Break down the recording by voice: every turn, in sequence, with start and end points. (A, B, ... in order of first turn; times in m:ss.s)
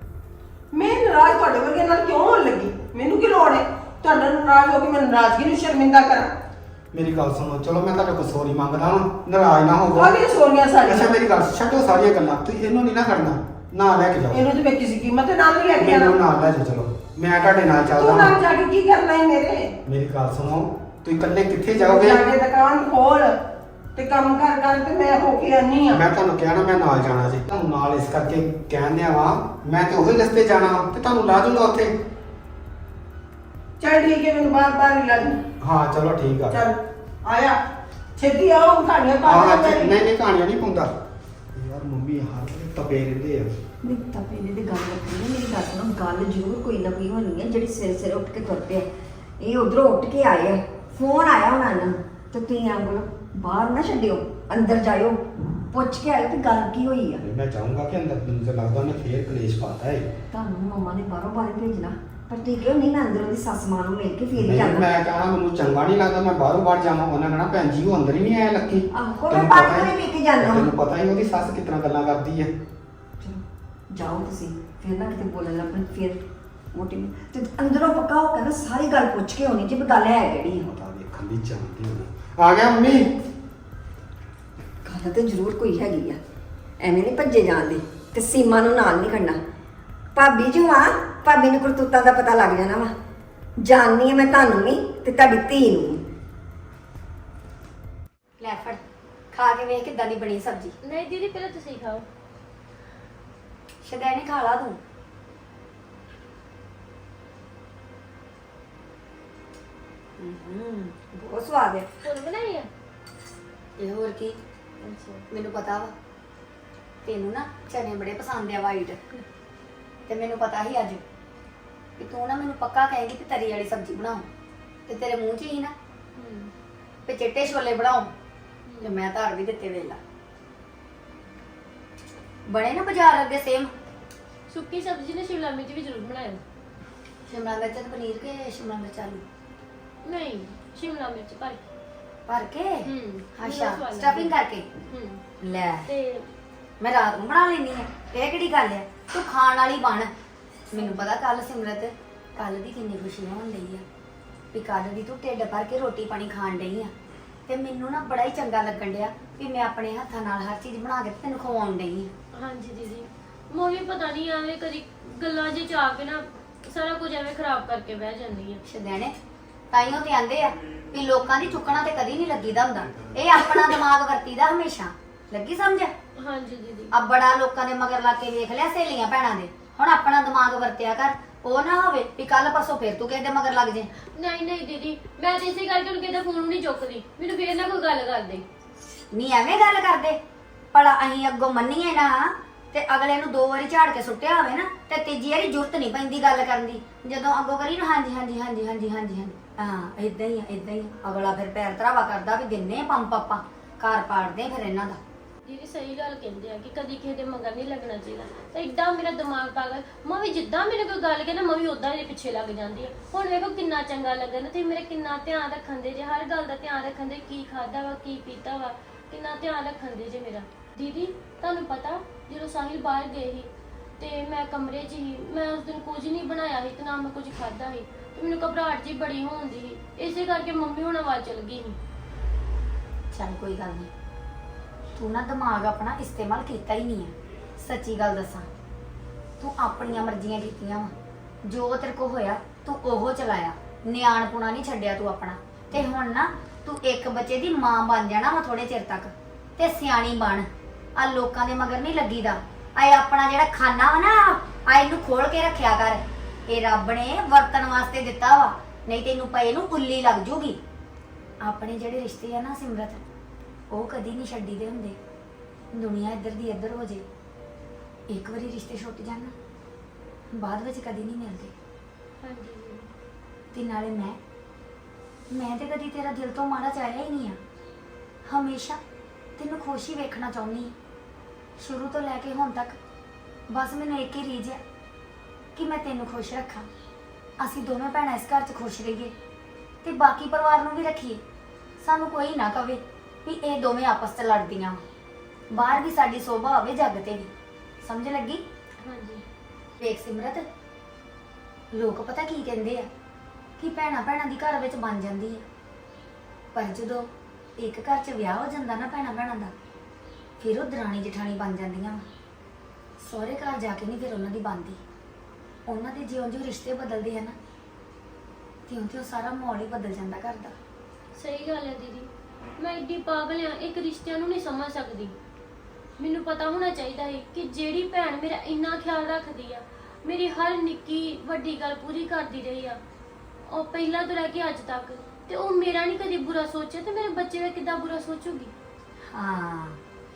0:00.7-0:06.3 A
0:06.9-0:10.1 B
0:09.9-0:11.2 A
0:10.8-0:14.5 B
0:14.3-0:16.2 A
0:15.8-0:18.4 B
0:17.9-0:19.7 A
0:19.8-0:22.3 B
0:21.8-0:23.4 A
0:23.9-0:26.0 A
0:25.9-0:31.9 B
0:33.8-0:35.4 A
0:35.6-0:36.7 B
0:37.3-0:37.6 A
0:38.2-0:40.0 A
0:39.2-0:40.9 B
0:41.5-0:43.5 B
0:43.8-0:48.9 C
0:49.4-0:55.2 C
0:55.7-0:57.2 C
0:57.2-1:00.1 B
1:00.3-1:04.9 C
1:04.4-1:12.5 B
1:08.9-1:10.7 C
1:13.9-1:16.2 C
1:16.7-1:20.7 C
1:20.7-1:23.1 B
1:24.8-1:26.2 C
1:26.8-1:29.4 C
1:30.2-1:32.9 C
1:33.6-1:36.0 C
1:38.4-1:38.8 D
1:39.3-1:40.7 D
1:40.8-1:42.0 E
1:43.8-1:44.8 D
1:50.2-1:51.9 C
1:52.0-1:52.7 E
1:53.8-1:54.4 D
1:55.3-1:55.9 D
1:57.0-1:59.0 D
2:00.1-2:01.0 D
2:02.0-2:04.3 D
2:04.9-2:05.7 D
2:06.1-2:06.5 E
2:07.0-2:08.1 D
2:08.7-2:08.9 E
2:08.8-2:10.0 D
2:12.5-2:13.7 D
2:14.5-2:16.4 E
2:17.3-2:19.2 D
2:20.0-2:21.6 E
2:22.3-2:24.7 D
2:22.8-2:24.3 E
2:24.9-2:25.2 E
2:25.4-2:25.8 D
2:25.8-2:26.3 E
2:26.8-2:30.1 D
2:30.7-2:33.8 D
2:34.5-2:36.9 D
2:37.5-2:42.1 D
2:42.3-2:48.6 E
2:48.6-2:49.1 D
2:49.7-2:55.9 D
2:56.2-2:56.9 E
2:56.9-3:03.9 D
3:04.0-3:08.4 E
3:09.1-3:10.2 D
3:10.7-3:25.0 D
3:25.4-3:51.8 E
3:53.1-3:53.9 D
3:54.9-3:58.5 D
3:59.4-4:00.9 D
4:01.4-4:20.6 D
4:21.4-4:23.0 D
4:23.7-4:25.0 D
4:25.7-4:27.0 D
4:28.1-4:29.3 D
4:30.3-4:31.5 D
4:32.2-4:32.9 E
4:33.5-4:34.2 D
4:35.3-4:37.4 D
4:38.2-4:38.8 D
4:39.4-4:40.7 D
4:41.6-4:42.8 D
4:43.5-4:44.6 D
4:45.6-4:46.7 D
4:47.4-4:49.1 D
4:49.8-4:51.2 D
4:51.8-4:54.8 D
4:55.5-4:57.3 D
4:57.8-4:58.4 D
4:58.8-4:59.2 E
4:59.8-5:00.5 D
5:01.7-5:02.9 D
5:03.6-5:05.4 D
5:06.5-5:09.5 D
5:10.4-5:12.0 D
5:13.0-5:14.8 D
5:15.7-5:17.3 D
5:18.7-5:20.5 D
5:21.2-5:25.1 E
5:26.0-5:32.8 E
5:33.5-5:38.5 E
5:39.1-5:39.8 D